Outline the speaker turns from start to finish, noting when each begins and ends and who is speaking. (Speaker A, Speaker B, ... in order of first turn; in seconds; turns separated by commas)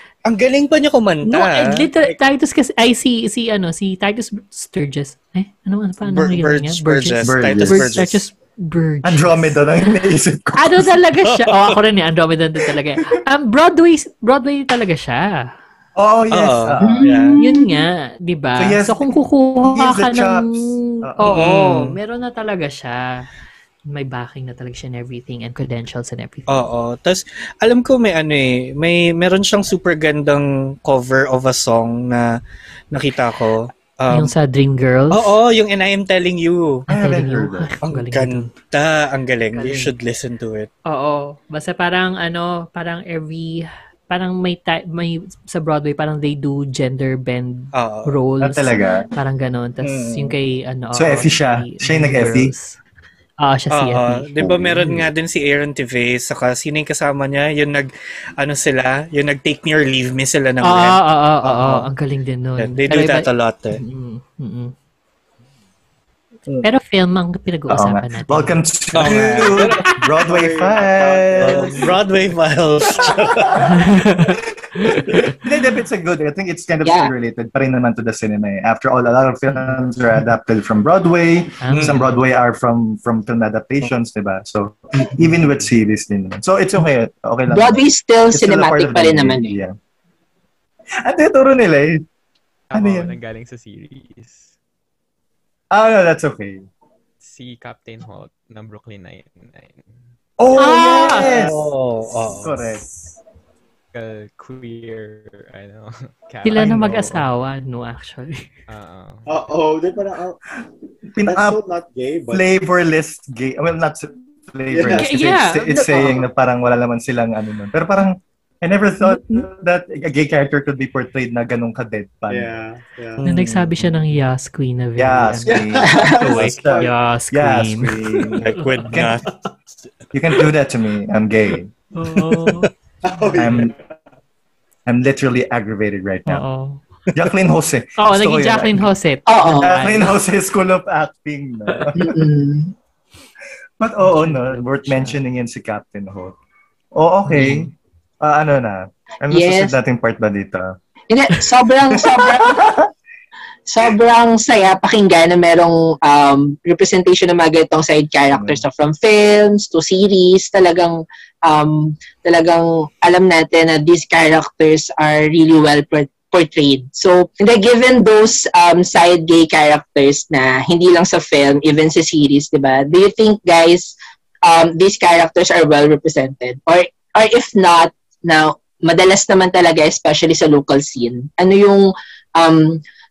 Speaker A: 0.2-2.2, Speaker B: 1.2-9.7, Speaker A: 6.0-8.2, Speaker C: 7.2-8.1, Speaker C: 9.0-10.9, Speaker B: 10.5-15.5, Speaker A: 11.3-11.8, Speaker C: 16.0-17.2, Speaker A: 16.3-17.4, Speaker D: 16.8-17.9, Speaker B: 17.4-23.3, Speaker C: 18.6-19.1, Speaker C: 19.6-21.5, Speaker A: 21.2-21.9, Speaker B: 23.9-26.7, Speaker A: 26.5-32.3, Speaker A: 32.9-34.3, Speaker B: 34.1-35.4, Speaker A: 35.1-36.8, Speaker C: 36.9-37.7, Speaker B: 36.9-38.5, Speaker A: 37.8-40.7, Speaker B: 39.5-40.0, Speaker B: 40.9-52.8, Speaker A: 47.7-48.1, Speaker C: 48.4-49.1, Speaker A: 49.8-50.4, Speaker C: 51.0-52.5, Speaker B: 53.4-55.0, Speaker A: 53.7-61.9, Speaker C: 54.4-55.0, Speaker B: 60.6-64.7, Speaker A: 62.6-63.8, Speaker B: 66.6-68.6, Speaker C: 67.7-71.9, Speaker A: 68.9-70.0, Speaker E: 70.2-72.0, Speaker A: 71.4-73.7, Speaker C: 72.9-73.6, Speaker B: 73.5-75.0, Speaker C: 75.0-89.8, Speaker D: 76.8-77.1, Speaker B: 81.6-82.2, Speaker A: 81.7-82.0, Speaker D: 87.5-89.6, Speaker C: 91.0-92.1, Speaker F: 92.7-94.5, Speaker C: 92.7-93.2, Speaker C: 95.7-96.7, Speaker F: 97.2-100.1, Speaker C: 100.4-101.7, Speaker A: 100.6-102.5, Speaker B: 100.6-101.2, Speaker E: 100.8-101.5, Speaker E: 102.1-103.2, Speaker C: 102.4-102.8, Speaker F: 103.9-107.3, Speaker B: 106.4-108.5, Speaker F: 108.7-109.3, Speaker E: 109.3-110.4, Speaker C: 111.1-111.6, Speaker E: 111.2-112.5, Speaker C: 112.3-122.5, Speaker E: 114.7-115.1, Speaker B: 114.9-116.2, Speaker B: 119.0-119.4, Speaker E: 122.3-123.2, Speaker A: 123.2-123.8, Speaker B: 123.2-129.1, Speaker C: 125.0-129.2, Speaker E: 125.5-126.9, Speaker A: 128.4-129.2, Speaker C: 130.1-131.7, Speaker B: 131.9-132.7, Speaker A: 132.4-132.7, Speaker E: 133.0-133.8, Speaker C: 133.4-133.7, Speaker C: 134.9-136.4, Speaker B: 136.3-136.8, Speaker C: 137.2-138.9, Speaker B: 138.0-140.1, Speaker D: 139.3-139.8, Speaker C: 139.4-142.3, Speaker D: 142.0-142.7, Speaker C: 143.8-146.4, Speaker B: 144.0-145.2, Speaker C: 146.9-150.8, Speaker D: 147.3-147.7, Speaker D: 149.3-149.8, Speaker D: 151.1-152.7, Speaker C: 151.9-152.8, Speaker D: 153.7-182.8, Speaker C: 158.3-158.7